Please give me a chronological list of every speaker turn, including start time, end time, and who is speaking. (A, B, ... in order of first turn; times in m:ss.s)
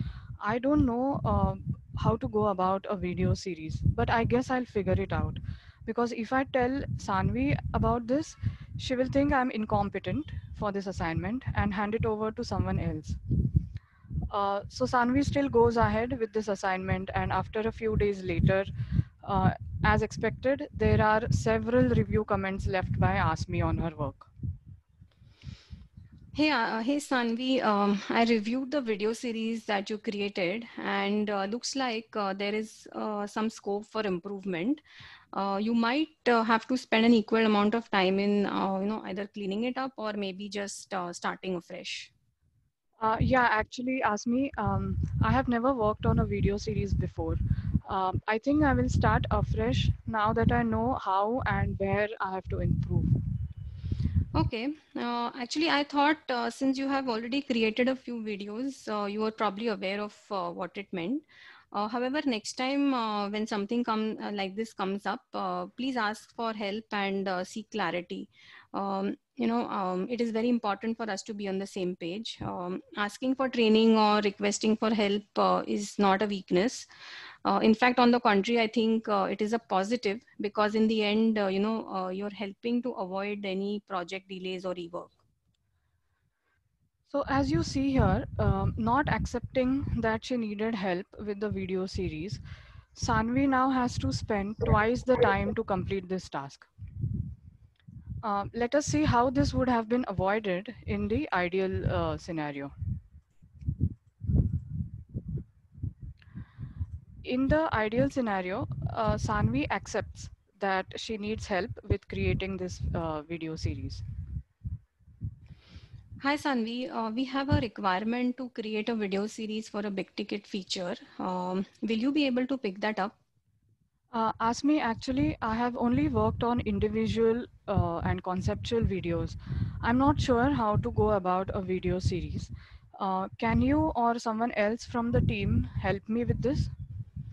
0:00.4-0:13.2 A
0:14.3-0:18.7 A
0:19.2-0:24.3 A
0:26.4-0:34.8 B
0:35.4-0:42.1 B
0:43.0-0:53.4 A
0:54.4-1:16.9 B
1:17.4-1:25.2 B
1:27.1-1:32.4 A
1:33.0-1:36.7 A
1:38.2-1:42.7 A
1:47.2-1:54.0 A
1:56.2-2:03.2 B
2:04.1-2:16.7 A